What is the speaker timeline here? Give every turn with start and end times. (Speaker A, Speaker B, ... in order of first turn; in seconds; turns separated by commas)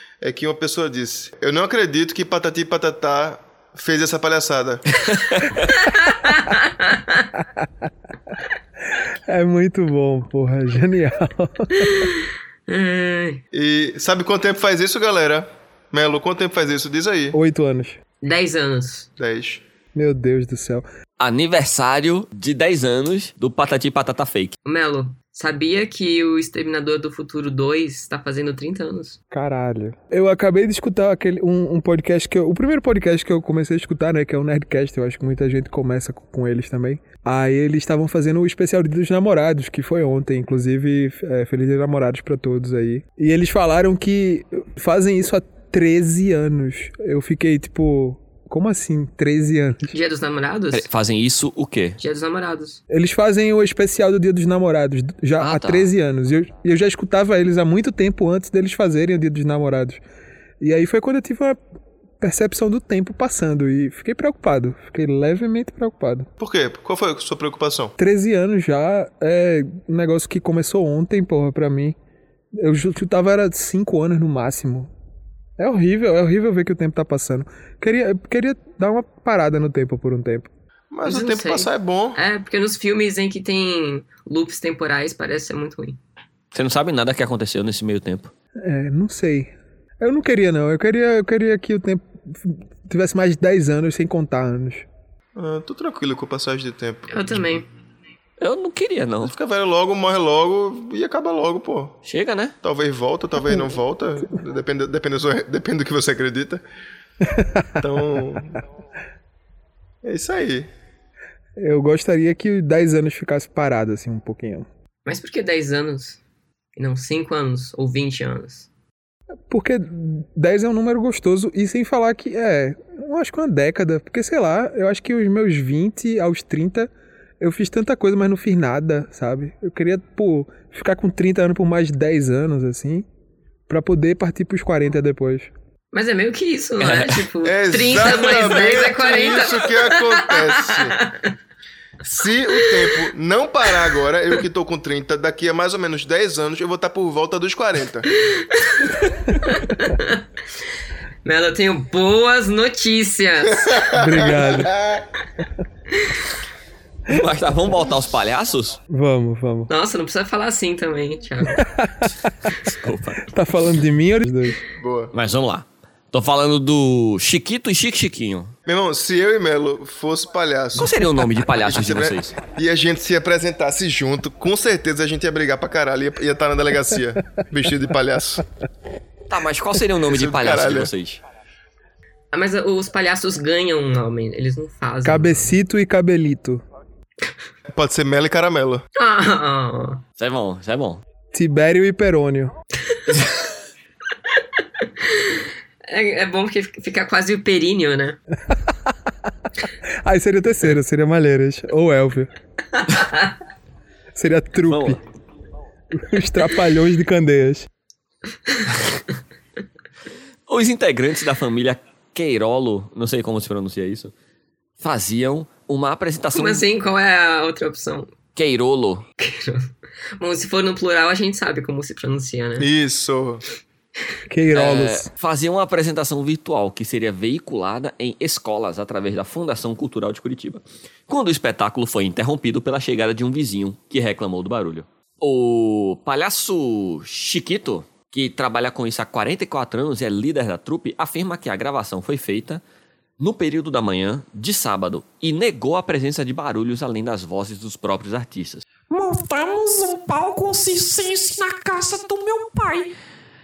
Speaker A: 0.2-4.8, Speaker B: 5.0-5.7, Speaker C: 6.1-7.2, Speaker D: 9.3-12.0, Speaker C: 11.8-13.4, Speaker A: 13.5-17.4, Speaker D: 17.3-18.0, Speaker C: 18.2-19.1, Speaker A: 19.2-19.6, Speaker D: 19.9-20.8, Speaker B: 21.2-24.5, Speaker C: 24.6-29.2, Speaker D: 29.3-49.9, Speaker C: 49.9-50.8, Speaker B: 50.7-52.0, Speaker C: 52.0-52.8, Speaker D: 52.9-60.0, Speaker B: 55.4-55.9, Speaker D: 60.6-61.6, Speaker D: 62.2-66.3, Speaker A: 66.4-67.9, Speaker D: 68.0-72.0, Speaker D: 72.5-74.9, Speaker D: 75.6-80.5, Speaker A: 80.9-82.2, Speaker C: 81.0-86.0, Speaker B: 86.5-88.3, Speaker D: 88.6-94.8, Speaker A: 95.3-97.4, Speaker C: 97.1-97.7, Speaker B: 98.4-99.3, Speaker A: 99.2-102.0, Speaker B: 102.0-102.5, Speaker A: 102.6-106.6, Speaker D: 107.3-107.7, Speaker A: 107.8-108.6, Speaker A: 110.0-110.7, Speaker D: 111.6-114.7, Speaker C: 115.0-116.2, Speaker C: 116.8-118.7, Speaker D: 119.5-133.1, Speaker D: 133.7-135.5, Speaker C: 135.9-141.1, Speaker B: 136.8-137.2, Speaker A: 137.4-141.0, Speaker A: 142.0-148.1, Speaker C: 148.2-150.2, Speaker C: 151.2-153.9, Speaker A: 153.7-155.0, Speaker D: 153.9-154.7, Speaker B: 157.1-158.8, Speaker D: 158.9-159.7, Speaker C: 159.7-161.6, Speaker D: 161.5-162.1, Speaker B: 162.5-163.2, Speaker D: 163.3-164.6, Speaker A: 164.8-165.1, Speaker B: 165.1-168.5, Speaker A: 168.7-170.9, Speaker B: 170.8-172.4, Speaker A: 171.6-178.4, Speaker B: 179.3-181.2, Speaker A: 180.1-180.9, Speaker C: 182.3-185.5, Speaker D: 185.0-186.6, Speaker A: 187.7-188.8, Speaker C: 188.9-190.0, Speaker B: 190.2-191.0, Speaker D: 191.3-192.5, Speaker C: 195.0-198.2, Speaker D: 200.0-202.3, Speaker D: 204.1-205.0, Speaker B: 204.7-205.0, Speaker D: 205.9-207.7, Speaker B: 210.5-214.1, Speaker B: 214.8-216.6, Speaker C: 216.3-218.1, Speaker B: 218.3-219.1, Speaker C: 219.2-222.7, Speaker A: 222.6-223.4, Speaker D: 224.3-225.1, Speaker B: 224.5-242.6, Speaker B: 243.2-248.6, Speaker E: 248.9-252.9